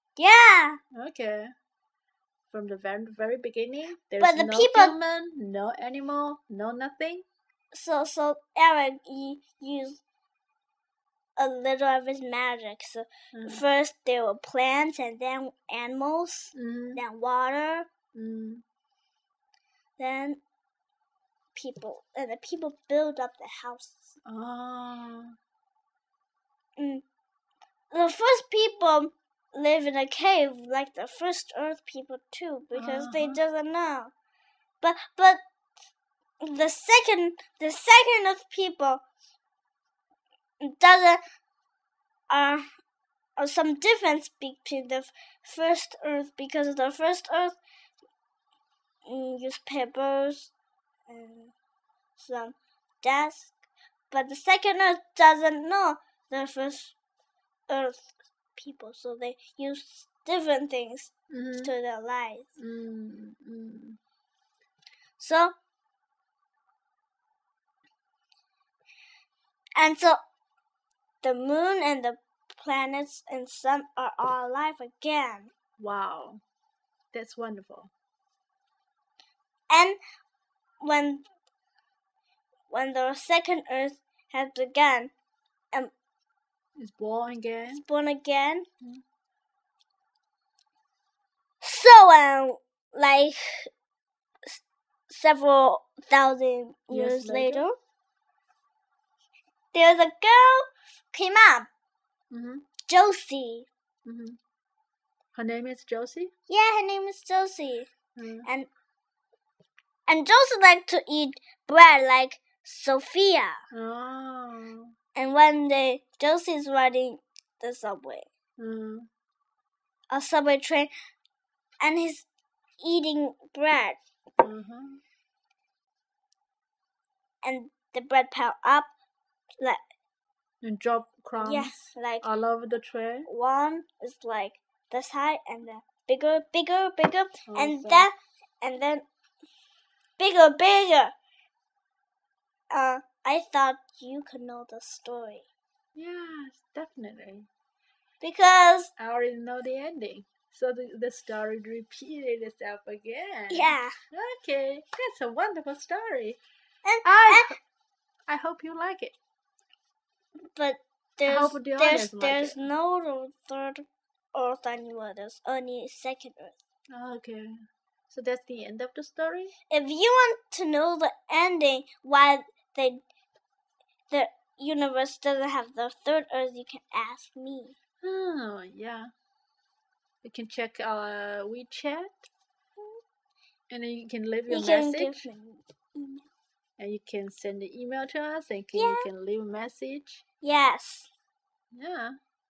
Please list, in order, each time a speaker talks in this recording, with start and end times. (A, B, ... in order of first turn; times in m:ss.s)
0:00.2-0:00.8 A
0:00.9-0:01.5 B
0:02.5-0:07.3 B
0:04.2-0:05.0 A
0:07.7-0:10.0 A
0:11.4-0:17.9 A
0:13.3-0:13.6 B
0:16.5-0:17.0 B
0:18.1-0:18.6 B
0:20.0-0:20.4 A
0:21.5-0:24.2 A
0:24.3-0:25.4 B
0:26.8-0:27.0 A
0:27.9-0:34.1 A
0:32.7-0:33.4 B
0:34.8-0:35.4 A
0:36.4-0:39.0 A
0:40.6-0:41.2 A
0:42.3-0:42.6 A
0:43.4-0:47.6 A
0:49.1-0:50.5 A
0:51.1-0:51.5 A
0:52.2-0:53.5 A
0:54.1-0:57.0 A
0:57.7-0:58.0 A
0:58.6-1:02.5 A
1:01.3-1:01.7 B
1:02.6-1:04.0 B
1:05.2-1:05.6 A
1:09.8-1:10.2 A
1:11.2-1:15.5 A
1:15.8-1:16.4 B
1:17.1-1:17.9 B
1:19.7-1:20.0 A
1:20.8-1:21.2 A
1:22.7-1:25.1 A
1:26.8-1:27.8 B
1:27.7-1:28.7 A
1:31.6-1:33.7 A
1:34.5-1:37.8 A
1:36.9-1:37.7 B
1:39.7-1:41.7 A
1:42.3-1:42.7 B
1:42.9-1:43.7 A
1:44.0-1:44.4 B
1:45.4-1:46.3 B
1:46.5-1:47.9 A
1:48.2-1:48.5 B
1:50.1-1:53.6 A
1:53.7-1:54.9 B
1:55.2-1:58.3 A
1:58.6-1:59.1 B
2:00.1-2:00.9 A
2:01.8-2:02.3 A
2:02.8-2:04.0 A
2:04.4-2:05.0 B
2:07.4-2:08.9 A
2:10.6-2:13.3 B
2:11.4-2:12.3 A
2:13.3-2:19.0 A
2:17.5-2:18.1 B
2:20.2-2:21.1 A
2:22.7-2:25.5 A
2:26.0-2:27.5 B
2:28.2-2:28.9 A
2:29.0-2:36.4 B
2:33.5-2:33.9 A
2:36.8-2:37.6 A
2:37.0-2:37.6 B
2:38.3-2:39.2 B
2:40.6-2:46.6 A
2:41.3-2:42.6 B
2:46.9-2:47.5 B
2:48.1-2:49.5 B
2:49.7-2:53.0 A
2:54.1-2:57.8 A
2:58.0-2:59.1 B
3:00.2-3:02.3 B
3:03.7-3:05.2 B
3:04.5-3:06.3 A
3:06.8-3:10.2 B
3:08.7-3:09.1 A
3:10.4-3:11.1 A
3:11.7-3:12.2 B